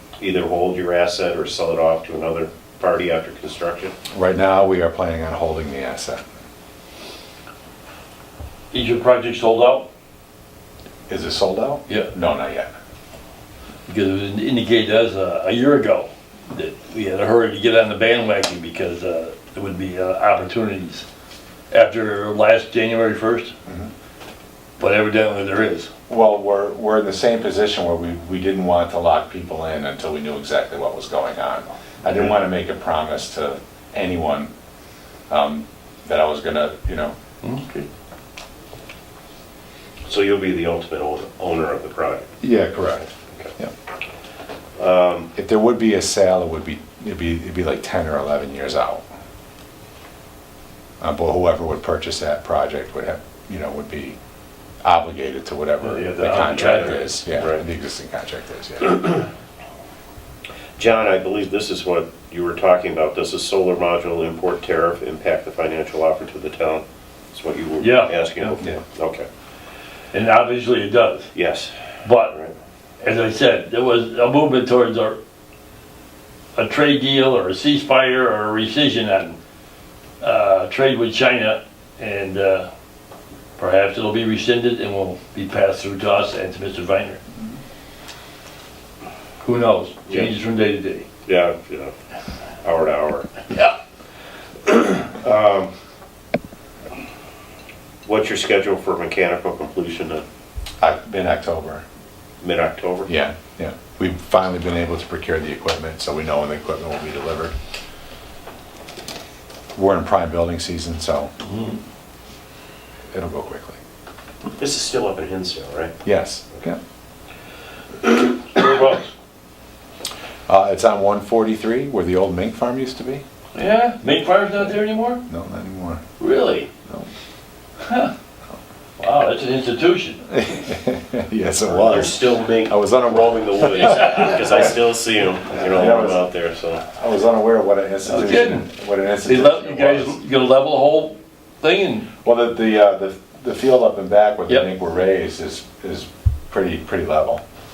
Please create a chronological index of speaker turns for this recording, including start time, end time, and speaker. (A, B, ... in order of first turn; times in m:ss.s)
0:00.2-0:03.9 A
0:04.1-0:06.2 B
0:08.7-0:09.9 C
0:11.1-0:12.7 B
0:13.9-0:21.0 C
0:21.7-0:23.5 C
0:24.8-0:25.9 C
0:26.1-0:34.5 B
0:35.3-0:37.1 B
0:37.4-0:37.9 C
0:40.1-0:42.3 A
0:42.4-0:43.7 B
0:44.8-0:45.3 A
0:45.3-0:49.0 B
0:51.0-0:54.2 B
0:54.8-0:59.2 B
0:55.8-0:57.2 C
0:56.6-0:57.6 A
1:00.8-1:09.3 A
1:07.8-1:08.5 C
1:10.1-1:11.3 C
1:11.3-1:11.7 A
1:12.0-1:12.3 C
1:12.3-1:12.5 A
1:13.0-1:15.2 C
1:16.6-1:19.4 C
1:20.2-1:22.7 C
1:23.6-1:27.2 C
1:29.4-1:31.1 C
1:31.2-1:31.9 A
1:32.6-1:33.4 A
1:34.6-1:35.7 A
1:38.0-1:40.2 A
1:40.8-1:41.8 B
1:42.4-1:43.1 A
1:43.1-1:47.5 B
1:49.8-1:51.3 B
1:51.4-1:51.8 C
1:53.1-1:53.8 B
1:54.6-1:55.9 A
1:56.0-1:56.8 B
1:58.0-1:59.1 C
2:00.5-2:03.2 B
2:03.5-2:05.2 C
2:05.3-2:06.0 B
2:06.2-2:06.7 C
2:07.8-2:08.1 C
2:09.0-2:10.2 C
2:10.3-2:14.7 B
2:11.6-2:16.8 A
2:15.6-2:16.2 B
2:16.8-2:20.2 B
2:18.0-2:18.7 C
2:19.2-2:22.1 C
2:22.2-2:27.4 B